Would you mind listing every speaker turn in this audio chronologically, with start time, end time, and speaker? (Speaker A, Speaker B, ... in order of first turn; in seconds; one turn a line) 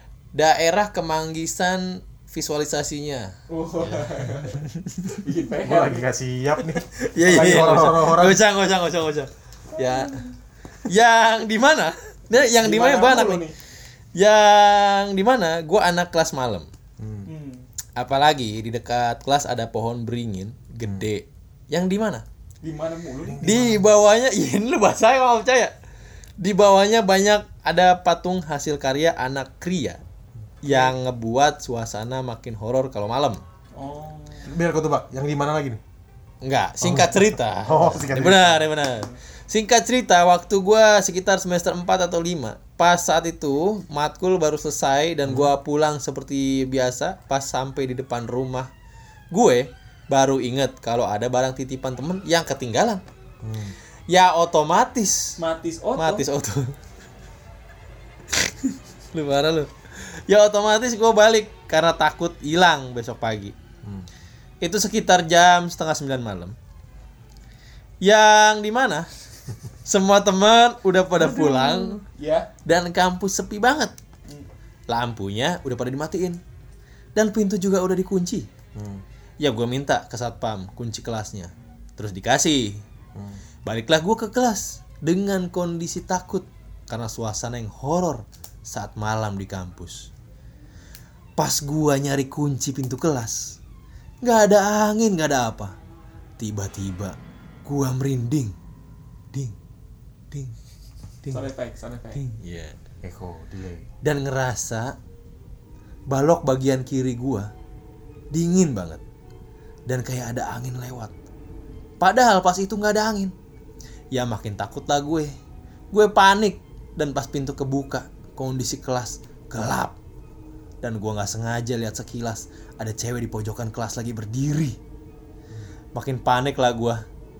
Speaker A: 0.3-3.3
Speaker B: 3.5-4.6
Speaker A: 3.8-5.1
Speaker B: 5.2-6.0
Speaker C: 5.6-8.4
Speaker A: 7.0-10.2
Speaker B: 7.3-7.9
Speaker B: 9.8-10.2
Speaker A: 10.9-13.4
Speaker B: 12.3-13.5
Speaker A: 14.1-16.7
Speaker C: 17.0-17.3
Speaker B: 17.2-17.7
Speaker A: 18.0-22.2
Speaker C: 20.8-21.1
Speaker B: 22.6-23.4
Speaker C: 23.2-23.9
Speaker A: 23.4-25.7
Speaker A: 26.4-30.0
Speaker A: 30.6-33.4
Speaker B: 33.7-34.5
Speaker C: 34.4-35.8
Speaker A: 36.4-48.7
Speaker C: 36.8-38.7
Speaker C: 45.2-45.5
Speaker A: 49.3-53.0
Speaker C: 53.4-53.8
Speaker A: 54.1-55.4
Speaker B: 55.4-56.2
Speaker A: 56.0-56.7
Speaker A: 58.5-63.5
Speaker C: 63.8-64.1
Speaker A: 64.6-66.5
Speaker A: 68.0-69.1
Speaker A: 69.8-72.0
Speaker B: 71.2-72.5
Speaker A: 72.6-73.9
Speaker A: 74.9-76.4
Speaker A: 77.2-78.5
Speaker C: 78.7-79.0
Speaker A: 79.4-82.8
Speaker C: 83.1-83.4
Speaker A: 83.6-90.1
Speaker A: 91.4-93.6
Speaker A: 94.2-95.7
Speaker A: 96.4-98.5
Speaker B: 101.3-102.2
Speaker A: 102.1-102.8
Speaker C: 103.0-103.9
Speaker A: 104.0-105.0
Speaker A: 106.1-107.5
Speaker A: 108.3-109.0
Speaker A: 109.9-111.1
Speaker A: 112.0-113.3
Speaker A: 114.1-115.3
Speaker A: 115.9-120.0
Speaker A: 120.8-124.8
Speaker A: 125.9-127.0